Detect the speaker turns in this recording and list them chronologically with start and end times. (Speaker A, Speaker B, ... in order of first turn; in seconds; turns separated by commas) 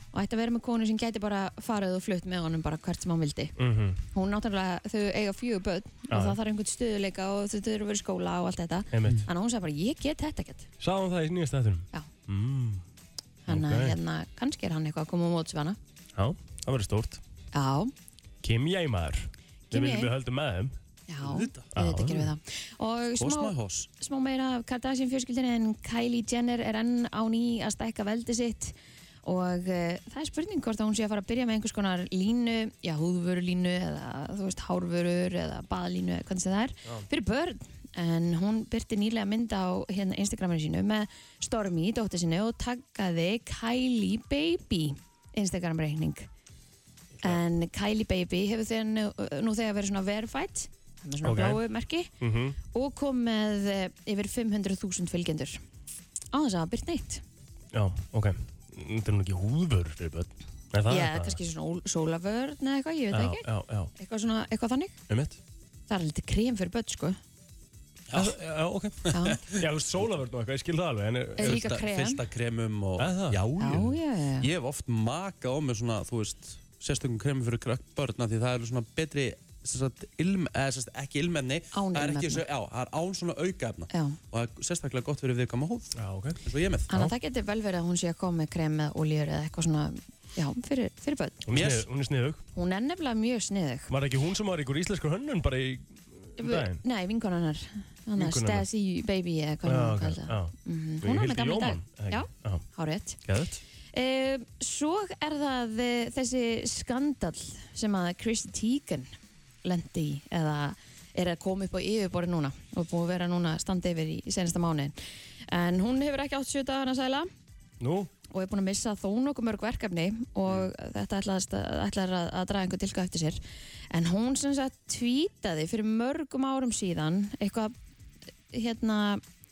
Speaker A: 0.1-3.5, Speaker B: 3.6-4.0, Speaker A: 4.1-10.7, Speaker B: 6.1-6.4, Speaker B: 8.9-9.2, Speaker B: 10.8-12.8, Speaker A: 13.5-15.8, Speaker B: 13.5-14.0, Speaker B: 16.2-17.2, Speaker A: 17.5-17.9, Speaker B: 18.4-20.7, Speaker A: 19.7-20.1, Speaker A: 21.1-46.3, Speaker C: 21.2-21.7, Speaker B: 21.8-22.3, Speaker C: 23.2-23.9, Speaker A: 47.2-52.1, Speaker B: 51.2-51.6, Speaker B: 52.2-52.6, Speaker A: 52.7-55.6, Speaker A: 56.3-57.2, Speaker B: 57.7-61.4, Speaker A: 60.9-65.0, Speaker B: 63.1-63.9, Speaker B: 65.1-65.4, Speaker A: 65.9-67.2, Speaker C: 68.1-68.4, Speaker B: 68.1-71.6, Speaker C: 69.1-69.7, Speaker A: 69.1-69.4, Speaker A: 71.4-72.2, Speaker C: 71.4-86.9, Speaker B: 73.0-73.8, Speaker A: 73.6-74.5, Speaker A: 81.7-82.4, Speaker A: 83.9-84.2, Speaker B: 86.0-86.4, Speaker A: 86.9-91.4, Speaker B: 91.5-92.4, Speaker C: 91.5-91.9, Speaker A: 92.5-93.9, Speaker B: 93.9-96.8, Speaker A: 96.4-103.2, Speaker B: 98.2-98.7, Speaker B: 99.7-102.6, Speaker B: 103.2-103.6, Speaker A: 103.9-109.1, Speaker A: 109.6-115.0, Speaker A: 115.5-117.3, Speaker B: 117.8-118.1, Speaker A: 118.3-123.4, Speaker A: 123.9-127.7, Speaker A: 128.5-129.2